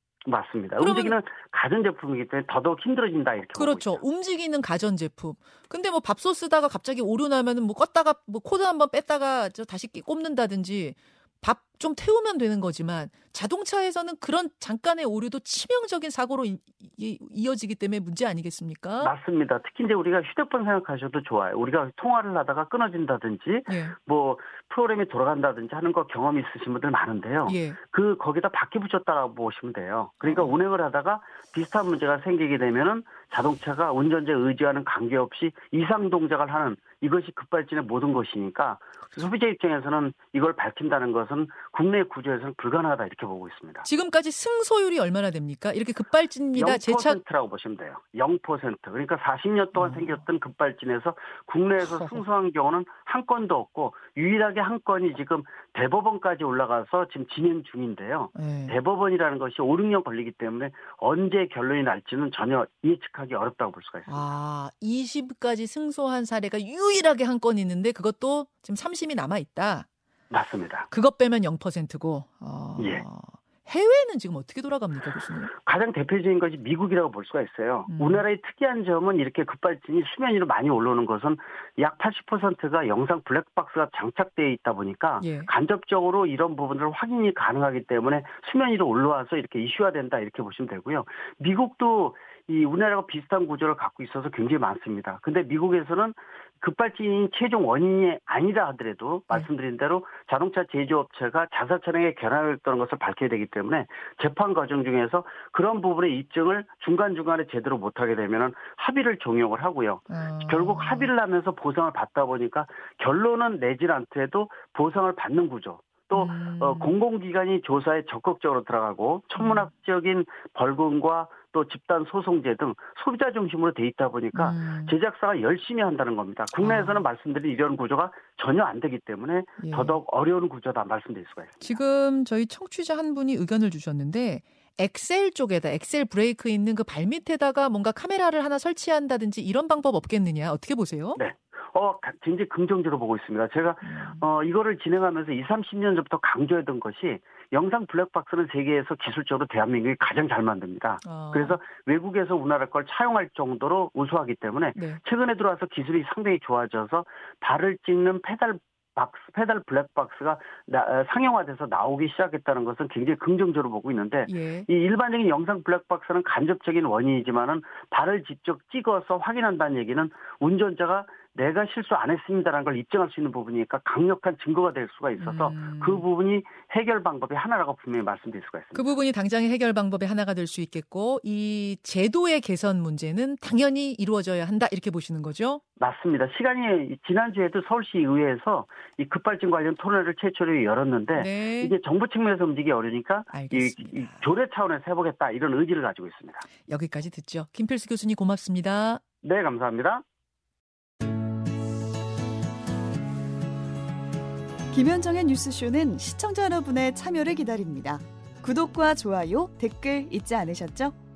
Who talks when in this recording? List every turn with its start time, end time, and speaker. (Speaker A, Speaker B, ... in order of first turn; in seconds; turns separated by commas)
Speaker A: 0.3-4.0, Speaker B: 0.8-1.2, Speaker B: 3.6-19.1, Speaker A: 19.0-43.9, Speaker B: 23.7-24.0, Speaker B: 27.5-27.8, Speaker B: 30.2-30.6, Speaker B: 43.9-47.2, Speaker A: 46.5-64.3, Speaker B: 49.8-50.2, Speaker B: 51.8-52.2, Speaker B: 58.4-58.8, Speaker B: 64.1-69.9, Speaker A: 70.3-70.9, Speaker B: 70.9-75.5, Speaker A: 72.8-73.0, Speaker A: 75.5-131.8, Speaker B: 77.9-78.2, Speaker B: 85.2-85.5, Speaker B: 110.1-111.1, Speaker B: 116.1-116.9, Speaker B: 119.4-119.7, Speaker B: 124.3-125.0, Speaker B: 126.6-127.0, Speaker B: 129.6-130.0, Speaker B: 131.6-141.2, Speaker A: 141.2-178.8, Speaker B: 143.8-144.2, Speaker B: 151.0-151.6, Speaker B: 154.8-155.0, Speaker B: 164.3-164.7, Speaker B: 175.2-176.0, Speaker B: 178.7-185.6, Speaker A: 185.8-196.5, Speaker B: 191.1-191.8, Speaker B: 193.3-194.3, Speaker B: 196.7-199.0, Speaker A: 199.2-200.0, Speaker C: 204.7-210.9